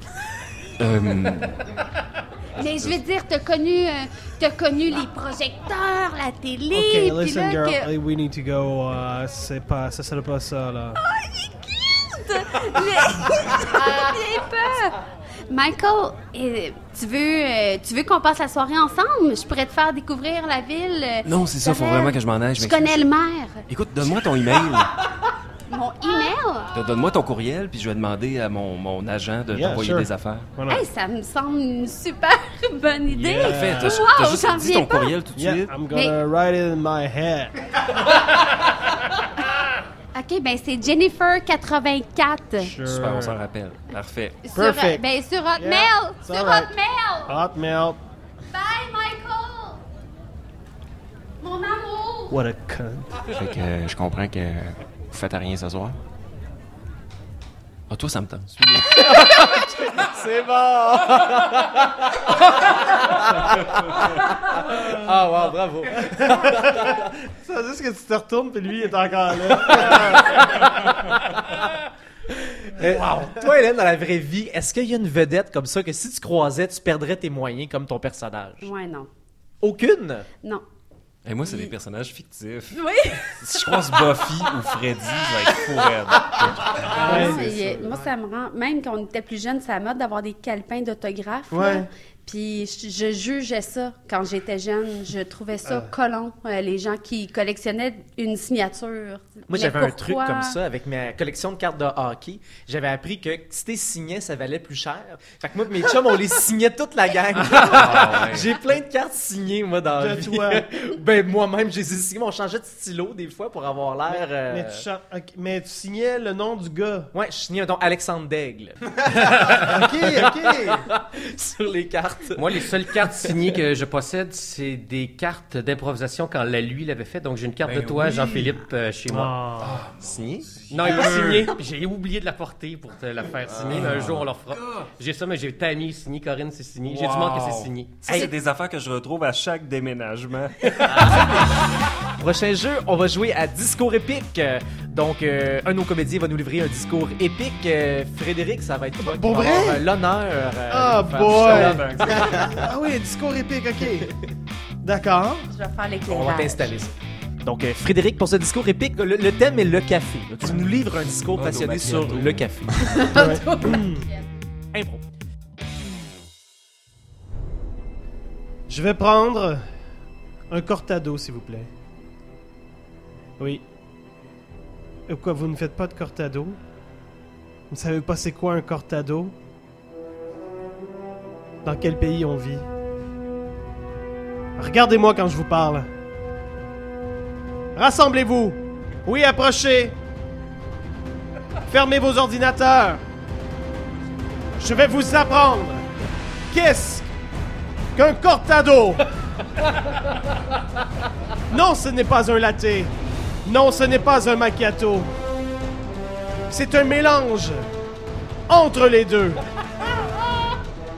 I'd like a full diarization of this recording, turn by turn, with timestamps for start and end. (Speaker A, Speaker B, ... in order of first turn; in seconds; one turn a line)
Speaker A: 0.8-1.7
Speaker B: 2.6-7.9
Speaker A: 2.6-3.0
Speaker C: 6.7-11.0
Speaker B: 11.0-15.0
Speaker B: 15.5-23.6
Speaker A: 21.2-23.1
Speaker A: 23.7-24.9
Speaker B: 25.7-26.7
Speaker A: 26.7-30.5
Speaker C: 29.5-30.8
Speaker B: 30.7-35.1
Speaker C: 33.1-34.0
Speaker A: 33.4-35.7
Speaker C: 35.4-37.5
Speaker B: 35.9-36.2
Speaker B: 40.1-42.7
Speaker C: 42.6-43.4
Speaker A: 42.8-44.4
Speaker B: 44.4-47.4
Speaker C: 44.5-45.0
Speaker C: 45.6-46.7
Speaker C: 47.3-48.0
Speaker B: 48.5-49.8
Speaker B: 51.4-52.4
Speaker C: 52.3-53.2
Speaker D: 53.3-56.0
Speaker A: 57.9-59.1
Speaker E: 58.9-66.9
Speaker C: 66.0-70.7
Speaker E: 72.4-78.7
Speaker B: 78.6-79.1
Speaker E: 79.6-80.3
Speaker A: 81.2-87.3
Speaker B: 81.5-81.7
Speaker B: 82.7-83.7
Speaker C: 86.9-87.9
Speaker B: 86.9-100.6
Speaker C: 91.5-91.9
Speaker E: 99.5-114.8
Speaker F: 107.5-108.1
Speaker A: 107.7-108.5
Speaker C: 110.0-110.7
Speaker C: 114.1-117.1
Speaker E: 117.1-118.8
Speaker F: 119.2-119.8
Speaker E: 119.5-123.3
Speaker C: 119.5-120.9
Speaker F: 122.3-129.4
Speaker A: 127.6-128.5
Speaker C: 129.1-129.8
Speaker A: 129.6-131.5
Speaker D: 130.0-130.5
Speaker F: 130.7-138.2
Speaker A: 133.6-134.9
Speaker A: 136.8-141.4
Speaker E: 140.8-141.3
Speaker E: 142.2-152.3
Speaker C: 149.0-149.8
Speaker C: 150.7-154.1
Speaker A: 151.3-152.5
Speaker C: 154.8-155.5
Speaker B: 155.5-156.8
Speaker E: 156.1-156.9
Speaker E: 157.4-163.1
Speaker A: 160.4-160.7
Speaker A: 161.3-162.5
Speaker B: 162.9-164.2
Speaker C: 163.1-164.1
Speaker E: 164.7-165.0
Speaker C: 168.7-169.6
Speaker C: 170.5-171.7
Speaker C: 173.4-173.6
Speaker C: 175.1-176.6
Speaker C: 177.7-179.3
Speaker C: 181.6-182.7
Speaker C: 184.6-185.9
Speaker C: 187.8-190.0
Speaker C: 191.7-193.0
Speaker C: 194.6-195.8
Speaker C: 196.5-197.1
Speaker C: 198.0-199.1
Speaker C: 201.5-202.9
Speaker C: 203.4-205.1
Speaker C: 206.5-207.6
Speaker C: 208.5-210.5